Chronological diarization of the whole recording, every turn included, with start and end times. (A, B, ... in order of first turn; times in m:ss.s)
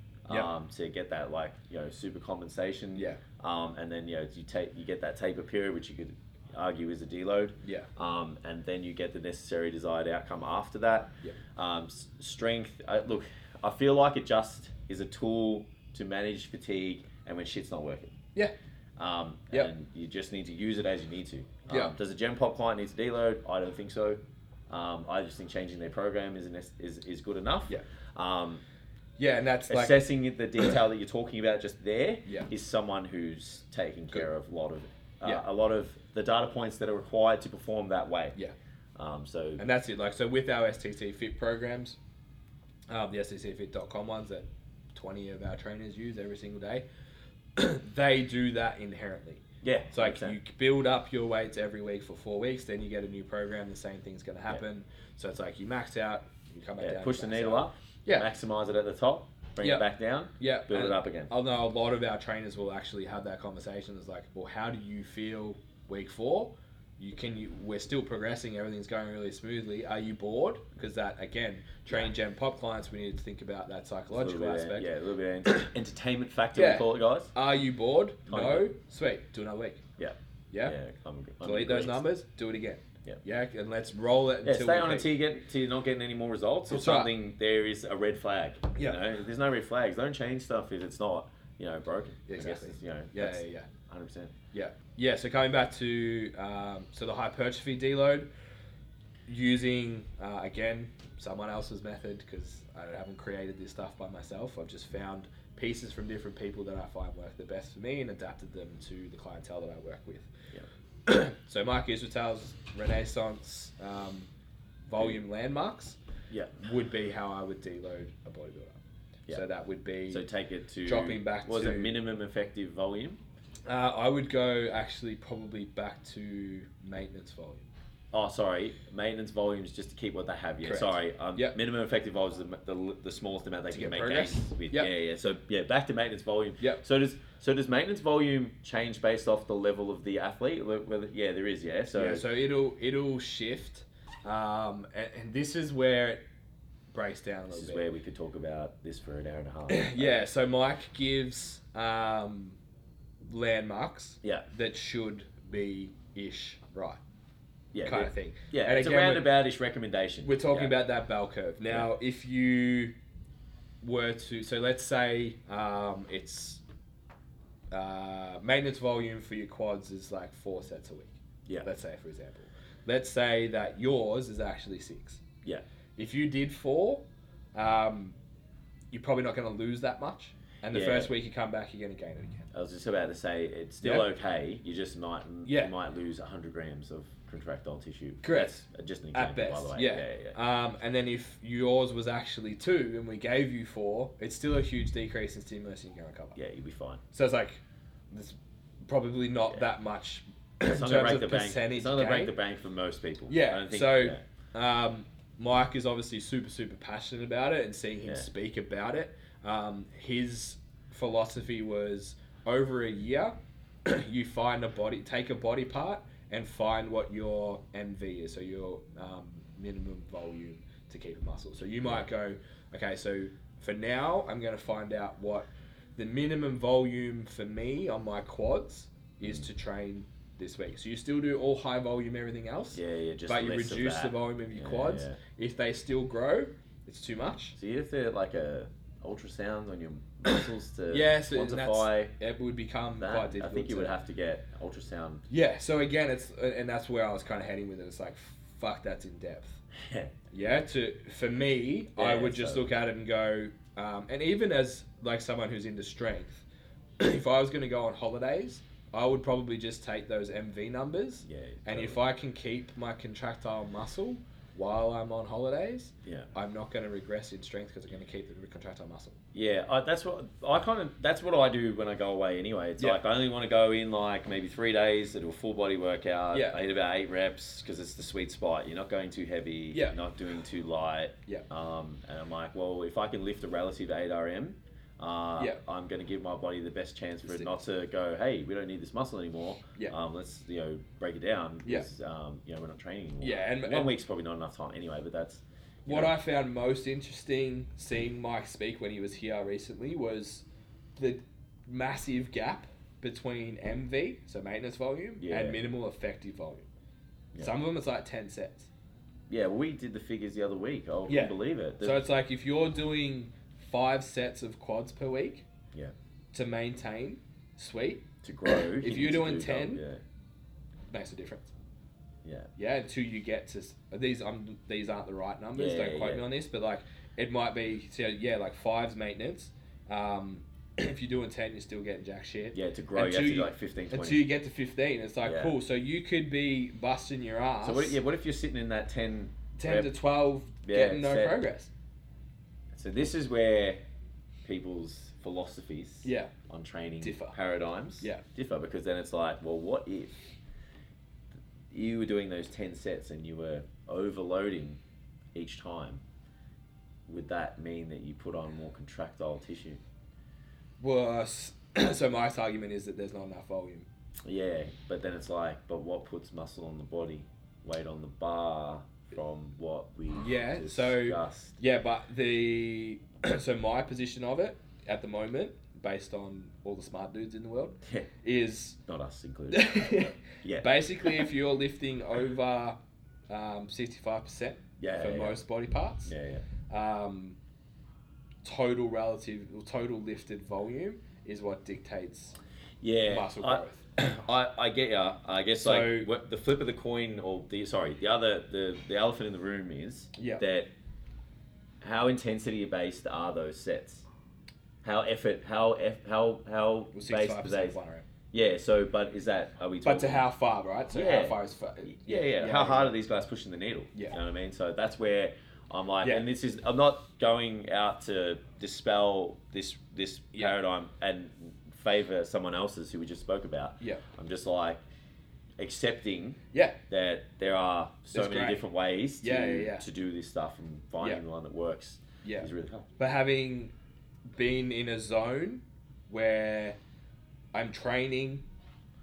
0:00.3-0:18.1 A
0:02.9-0:03.2 B
0:07.6-0:07.9 B
0:19.0-0:28.6 A
0:21.7-0:21.9 B
0:29.2-0:30.0 B
0:29.7-0:38.4 A
0:39.0-0:39.6 A
0:39.6-0:42.0 B
0:42.9-0:46.8 B
0:47.6-0:58.3 B
0:49.6-0:50.4 A
0:56.8-1:01.3 A
1:00.4-1:14.9 B
1:14.1-1:17.3 A
1:16.5-1:19.8 B
1:18.3-1:18.7 A
1:20.0-1:22.0 A
1:20.5-1:20.8 B
1:21.4-1:25.1 B
1:24.4-1:34.3 A
1:26.7-1:27.1 B
1:32.3-1:33.7 B
1:34.5-1:38.3 B
1:39.3-1:50.3 B
1:51.0-1:54.3 B
1:54.9-1:56.0 B
1:56.3-1:56.6 A
1:56.6-2:00.2 B
2:00.1-2:03.2 A
2:00.8-2:01.9 B
2:03.7-2:07.7 B
2:08.1-2:22.2 A
2:10.6-2:11.5 B
2:13.7-2:14.9 B
2:21.9-2:26.2 B
2:26.9-2:27.8 B
2:27.5-2:30.2 A
2:29.7-2:32.6 B
2:33.3-2:37.0 B
2:37.7-2:40.7 A
2:37.8-2:39.3 B
2:40.2-2:42.9 B
2:43.8-2:46.6 B
2:47.7-2:55.2 B
2:56.0-2:58.2 B
2:58.9-3:02.5 B
3:00.7-3:01.1 A
3:02.5-3:10.4 A
3:03.8-3:04.1 B
3:05.4-3:05.7 B
3:08.2-3:16.4 B
3:16.3-3:17.0 A
3:17.1-3:22.3 B
3:20.7-3:24.2 A
3:23.3-3:33.3 B
3:33.8-3:57.6 B
3:52.7-3:55.2 A
3:57.6-4:02.1 A
4:00.3-4:03.9 B
4:03.0-4:05.2 A
4:05.3-4:09.6 B
4:09.8-4:10.1 A
4:10.3-4:16.4 B
4:12.0-4:12.7 A
4:17.0-4:29.2 B
4:21.2-4:22.0 A
4:26.0-4:26.3 A
4:29.3-4:56.1 A
4:36.3-4:36.6 B
4:53.2-4:53.9 B
4:55.9-5:00.4 B
5:01.0-5:06.7 B
5:05.2-5:05.6 A
5:07.4-5:08.7 B
5:09.3-5:12.0 A
5:11.1-5:15.4 B
5:16.3-5:18.1 B
5:18.2-5:20.0 A
5:18.8-5:19.8 B
5:20.9-5:21.5 B
5:22.2-5:22.5 A
5:22.6-5:38.0 B
5:25.5-5:26.2 A
5:32.5-5:34.2 A
5:35.2-5:35.6 A
5:37.6-5:39.9 A
5:39.6-5:41.7 B
5:40.6-5:41.4 A
5:42.7-5:43.8 A
5:44.4-5:50.1 A
5:46.0-5:46.3 B
5:47.0-5:47.4 B
5:51.7-5:54.8 A
5:55.3-5:56.0 A
5:57.1-5:59.8 A
6:00.8-6:03.9 B
6:04.2-6:11.5 A
6:10.1-6:18.8 B
6:18.9-6:21.2 A
6:19.5-6:22.8 B
6:23.3-6:26.1 B
6:24.8-6:25.4 A
6:26.0-6:26.4 A
6:26.7-6:27.4 B
6:28.4-6:32.4 B
6:32.8-6:40.7 A
6:33.1-6:33.8 B
6:35.6-6:36.1 B
6:40.2-6:40.4 B
6:41.8-6:44.0 A
6:44.8-6:47.8 A
6:46.9-6:48.0 B
6:48.3-6:50.3 A
6:49.8-6:52.9 B
6:50.9-7:04.8 A
7:05.6-7:12.9 A
7:06.5-7:06.8 B
7:08.1-7:08.6 B
7:09.2-7:09.8 B
7:12.2-7:13.7 B
7:14.3-7:16.8 B
7:17.5-7:18.4 B